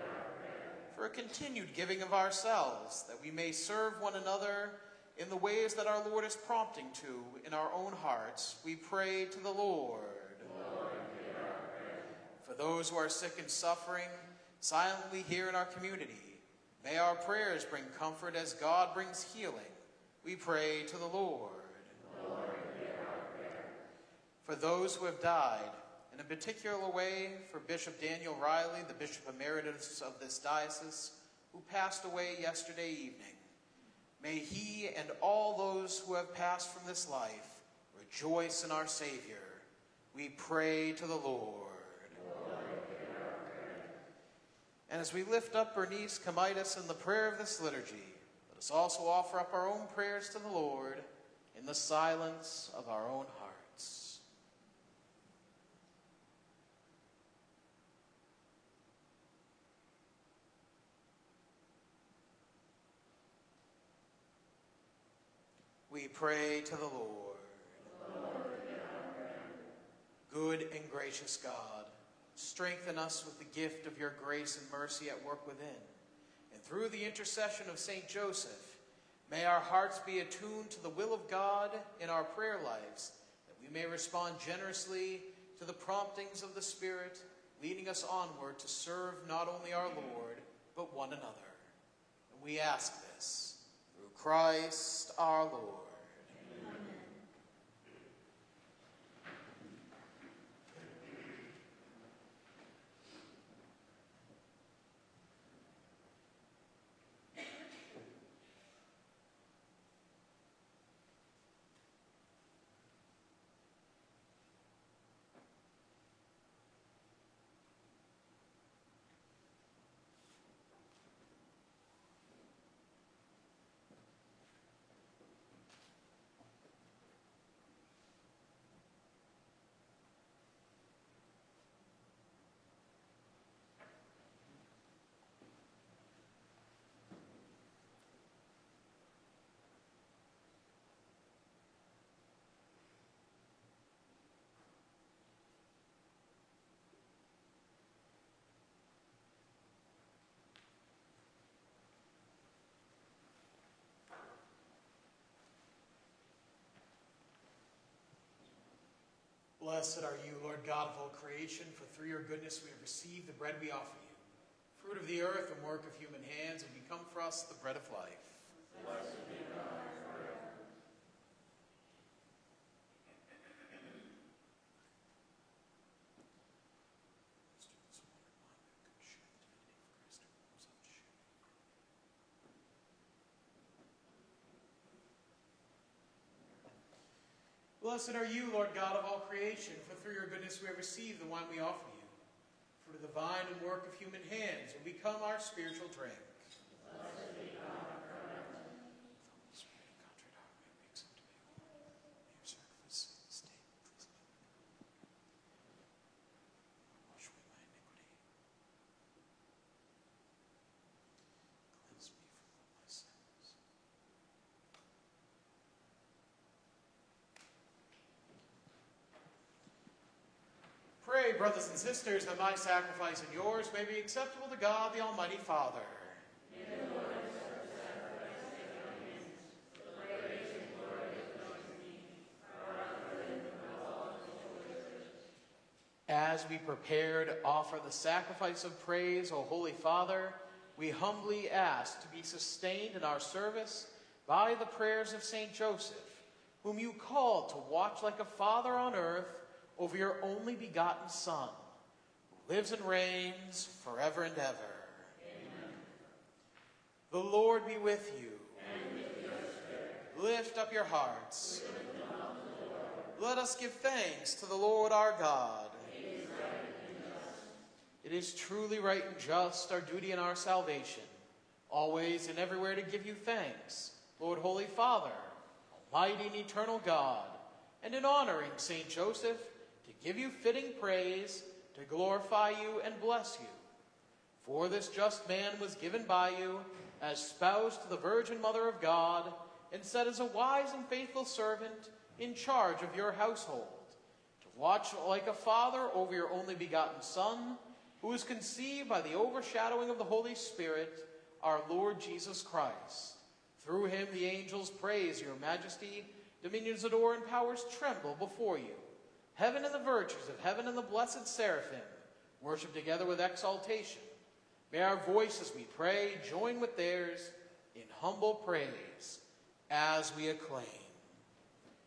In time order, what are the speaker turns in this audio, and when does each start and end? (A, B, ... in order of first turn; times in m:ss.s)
0:00.9-0:10.5 A
0:12.4-0:22.0 A
0:24.4-0:33.4 A
0:34.2-0:42.2 A
0:44.9-0:54.2 A
1:05.9-1:07.9 A
1:10.3-1:15.9 A
1:16.5-1:31.7 A
1:32.3-1:36.4 A
2:39.6-2:44.2 A
2:44.7-2:48.5 A
2:57.5-3:01.1 A
3:07.8-3:12.1 A
3:12.8-3:16.5 A
3:19.2-3:21.6 A
3:22.2-3:24.2 A
3:27.0-3:28.2 A
3:31.7-3:33.6 A
3:41.0-3:46.2 A
3:56.1-4:11.7 A
4:12.3-4:15.1 A
4:17.1-4:18.7 A
4:20.1-4:21.7 A
4:23.1-4:25.9 A
4:28.0-4:31.1 A
4:31.7-4:43.6 A
4:44.4-5:14.1 A
5:14.7-5:21.0 A